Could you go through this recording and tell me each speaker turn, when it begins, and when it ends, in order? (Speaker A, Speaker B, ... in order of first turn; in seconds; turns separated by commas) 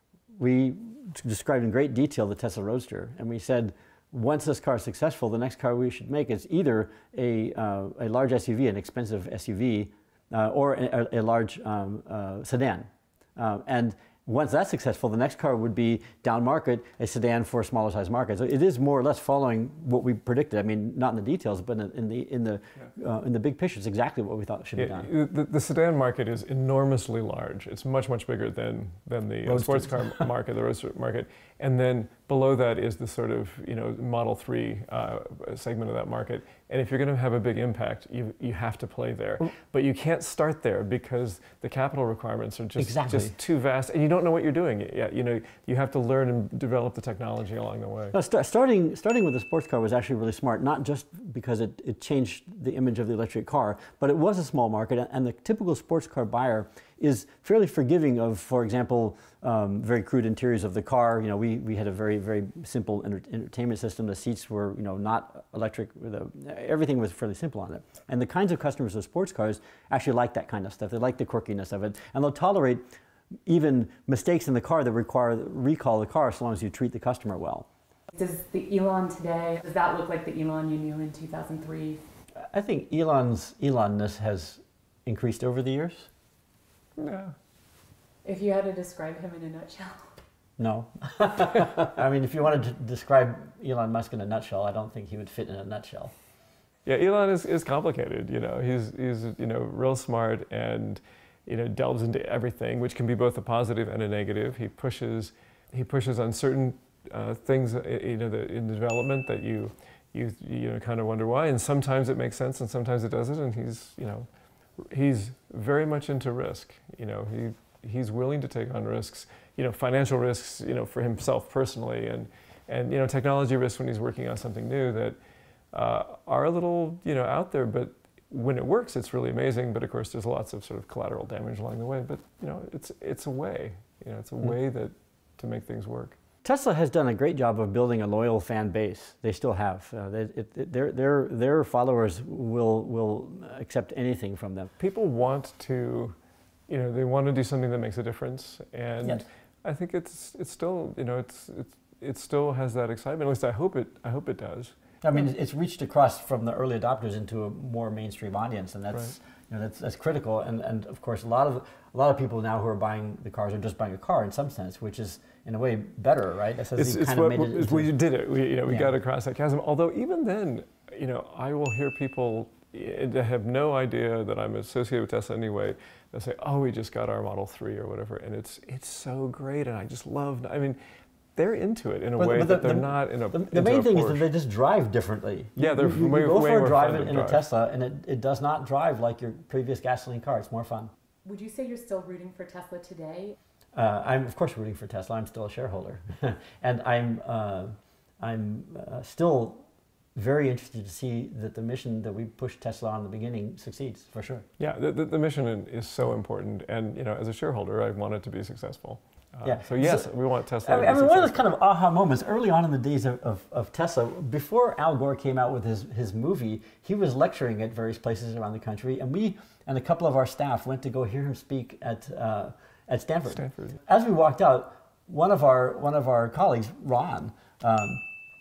Speaker A: 0.3-25.1, Speaker B: 24.8-48.1, Speaker A: 29.4-30.3, Speaker A: 42.8-43.3, Speaker A: 48.1-72.8, Speaker A: 73.5-77.7, Speaker C: 78.1-82.0, Speaker A: 82.5-86.1, Speaker B: 87.0-87.3, Speaker C: 88.2-90.1, Speaker A: 90.6-96.1, Speaker B: 96.8-114.3, Speaker B: 114.8-125.2, Speaker B: 125.7-136.2, Speaker A: 136.4-144.7, Speaker B: 144.8-146.2, Speaker B: 146.7-154.7, Speaker A: 155.0-167.9, Speaker B: 166.8-180.8, Speaker B: 181.3-184.3, Speaker A: 182.2-190.9, Speaker B: 185.6-187.4, Speaker C: 191.2-193.4, Speaker A: 193.7-204.4, Speaker B: 204.6-211.5, Speaker A: 209.4-210.1, Speaker A: 210.6-228.0, Speaker B: 223.3-223.8